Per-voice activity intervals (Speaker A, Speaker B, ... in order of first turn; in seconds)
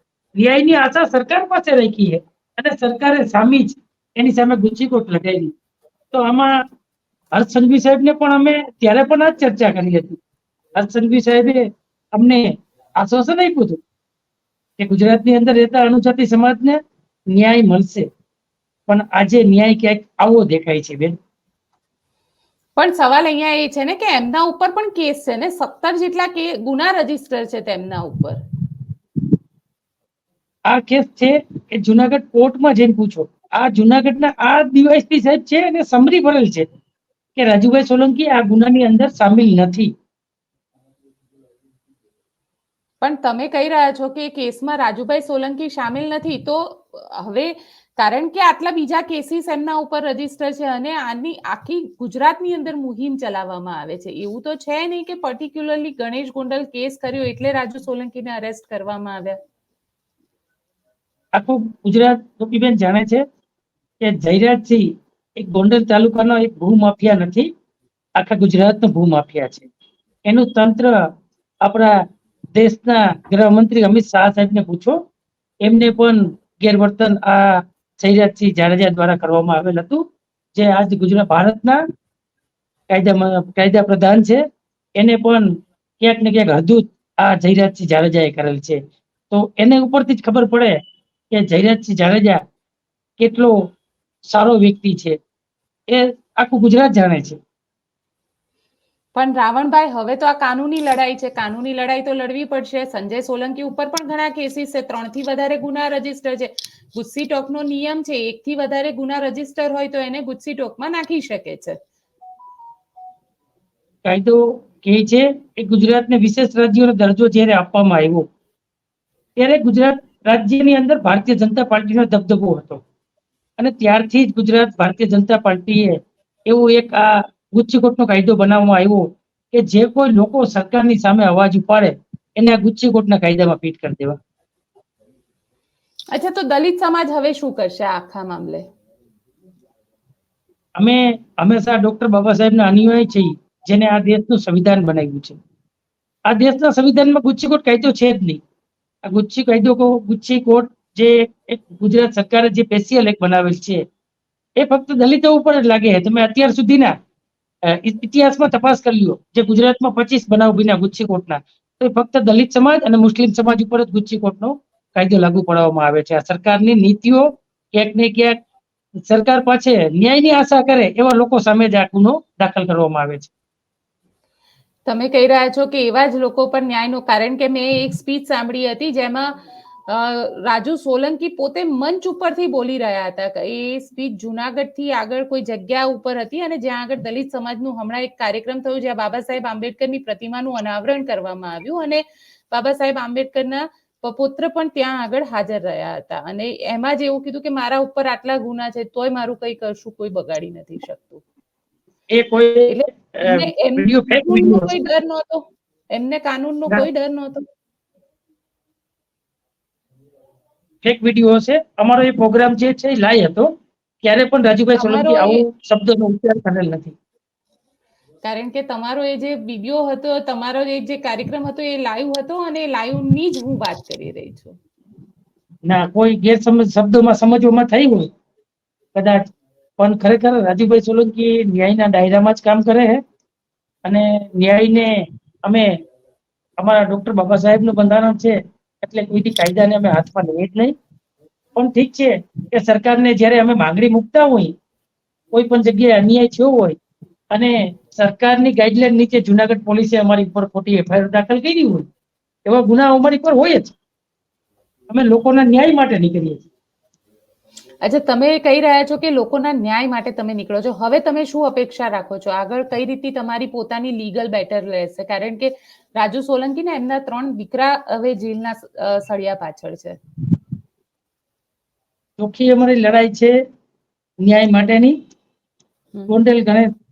Speaker A: 0.4-5.5, 6.1-6.5, 7.3-10.2, 10.8-11.6, 12.1-13.8, 14.8-16.8, 17.3-18.1, 18.9-21.1, 30.7-36.7, 37.4-39.9, 61.3-63.2, 64.0-64.8, 65.4-67.5, 68.2-69.7, 70.3-70.9, 71.6-71.9, 72.5-75.0, 75.6-77.4, 78.0-80.0, 80.5-81.8, 82.9-84.4, 85.0-85.5, 86.0-88.8, 89.3-90.8, 91.3-92.4, 93.2-93.5, 94.2-95.2, 95.9-97.4, 114.0-118.3, 119.4-122.8, 123.6-134.2, 140.8-145.4, 146.3-148.4, 149.0-153.8, 154.6-156.9, 157.7-168.3, 169.1-173.3, 202.1-204.7, 210.8-213.5, 214.0-216.9, 225.7-228.1, 228.9-229.2, 229.8-233.0, 233.8-234.9, 235.4-235.7, 236.6-240.7, 241.6-244.5, 245.3-246.8, 247.3-251.9, 252.4-253.7, 254.9-256.4, 272.2-273.3, 274.2-274.9, 276.1-276.7
Speaker B: 22.8-28.4, 43.0-59.4, 99.1-111.8, 136.1-138.6, 174.8-179.3, 179.9-201.2, 202.7-207.4, 214.7-215.4, 218.2-224.6, 257.8-270.0